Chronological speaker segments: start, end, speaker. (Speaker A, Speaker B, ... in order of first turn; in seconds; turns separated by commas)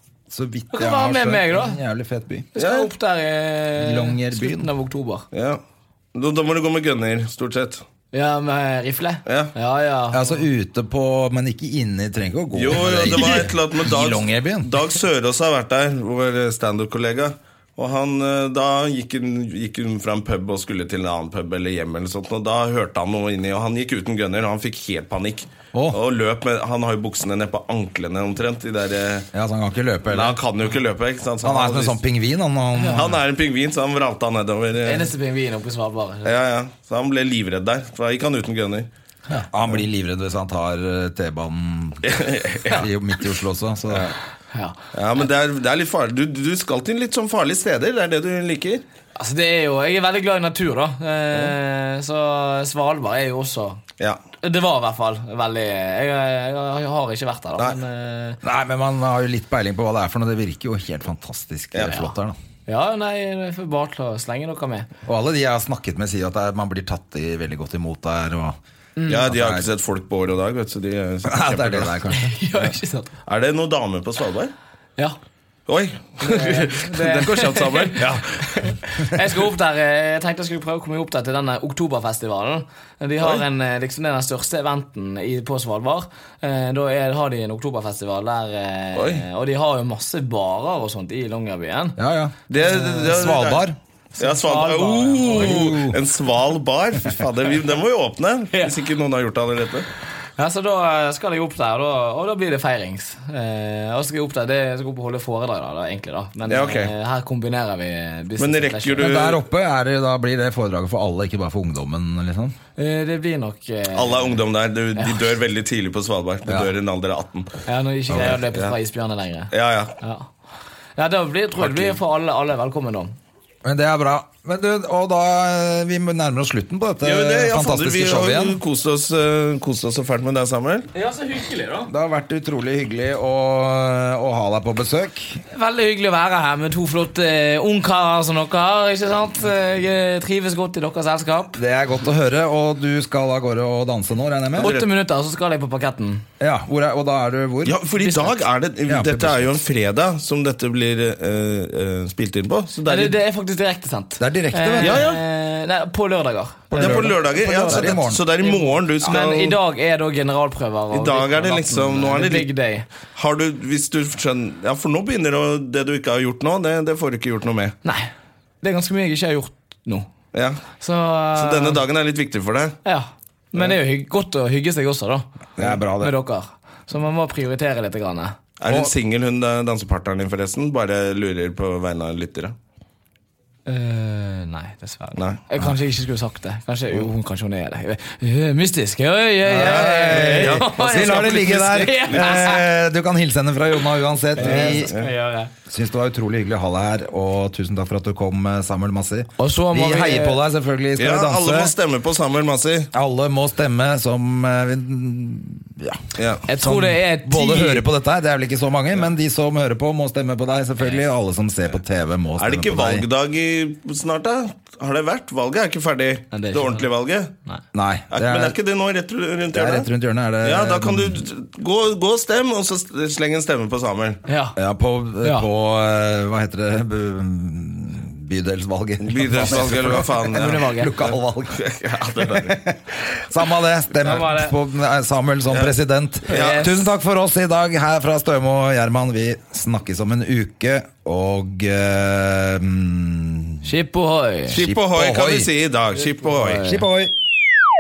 Speaker A: 0.3-2.5, Speaker B: 0.7-1.8, Speaker B: 2.5-5.3, Speaker C: 2.6-2.9, Speaker A: 3.8-4.7, Speaker C: 5.3-5.6, Speaker C: 6.1-7.8, Speaker B: 8.1-10.4, Speaker C: 9.3-9.5, Speaker A: 10.1-14.7, Speaker C: 12.5-29.3, Speaker A: 29.3-30.4, Speaker C: 30.1-32.0, Speaker A: 31.4-33.2, Speaker C: 32.8-35.1, Speaker B: 34.8-36.3, Speaker C: 36.2-38.9, Speaker A: 39.5-44.1, Speaker C: 42.0-42.8, Speaker C: 43.9-44.1, Speaker B: 44.5-44.8, Speaker C: 44.9-48.8, Speaker B: 49.1-53.8, Speaker B: 54.4-58.4, Speaker A: 58.4-62.4, Speaker B: 62.7-64.9, Speaker A: 65.1-68.6, Speaker B: 69.0-69.2, Speaker C: 69.1-72.0, Speaker A: 69.2-69.7, Speaker A: 71.2-72.7, Speaker B: 72.1-73.1, Speaker C: 73.3-74.5, Speaker C: 75.7-78.5, Speaker B: 76.2-92.0, Speaker C: 89.0-89.2, Speaker A: 92.0-93.8, Speaker C: 92.5-93.7, Speaker B: 92.6-93.1, Speaker B: 94.2-95.8, Speaker C: 94.2-99.9, Speaker A: 95.3-96.0, Speaker B: 100.4-109.1, Speaker C: 106.5-106.9, Speaker C: 108.4-109.4, Speaker A: 109.0-112.5, Speaker B: 112.8-114.4, Speaker C: 113.9-117.6, Speaker B: 115.0-115.3, Speaker B: 117.7-120.3, Speaker A: 118.1-118.4, Speaker C: 118.1-118.8, Speaker C: 119.5-120.0, Speaker B: 121.0-123.2, Speaker A: 123.7-128.6, Speaker C: 127.0-130.9, Speaker B: 130.9-131.9, Speaker A: 131.9-135.4, Speaker B: 135.5-141.6, Speaker A: 141.6-144.7, Speaker B: 144.6-146.2, Speaker C: 144.6-144.9, Speaker A: 146.4-147.8, Speaker C: 147.7-153.2, Speaker B: 148.0-148.3, Speaker A: 148.9-149.6, Speaker B: 152.8-162.8, Speaker A: 154.2-155.1, Speaker C: 154.8-155.2, Speaker A: 156.7-158.2, Speaker C: 156.7-159.6, Speaker C: 160.9-162.5, Speaker C: 163.2-167.8, Speaker B: 167.8-170.1, Speaker C: 170.3-170.6, Speaker B: 170.8-171.8, Speaker C: 171.3-172.8, Speaker B: 172.8-178.4, Speaker A: 175.6-176.1, Speaker C: 178.6-182.6, Speaker B: 183.7-192.6, Speaker A: 189.4-194.9, Speaker C: 189.8-192.3, Speaker B: 194.4-195.5, Speaker C: 194.4-195.1, Speaker A: 195.7-201.7, Speaker B: 199.4-200.4, Speaker C: 201.0-202.9, Speaker A: 202.9-213.1, Speaker C: 206.2-206.4, Speaker B: 206.5-207.9, Speaker C: 212.4-217.3, Speaker B: 216.3-216.9, Speaker A: 217.7-218.6, Speaker C: 218.1-219.9, Speaker A: 219.5-221.2, Speaker C: 220.4-224.2, Speaker B: 224.3-224.6, Speaker A: 224.6-231.6, Speaker B: 225.2-225.5, Speaker C: 229.0-230.7, Speaker B: 230.2-231.0, Speaker C: 231.5-232.6, Speaker A: 232.2-243.7, Speaker B: 234.0-234.5, Speaker C: 236.3-236.7, Speaker B: 236.3-236.8, Speaker B: 243.6-244.6, Speaker A: 244.5-245.5, Speaker C: 244.5-246.7, Speaker B: 246.2-246.8, Speaker A: 246.6-247.1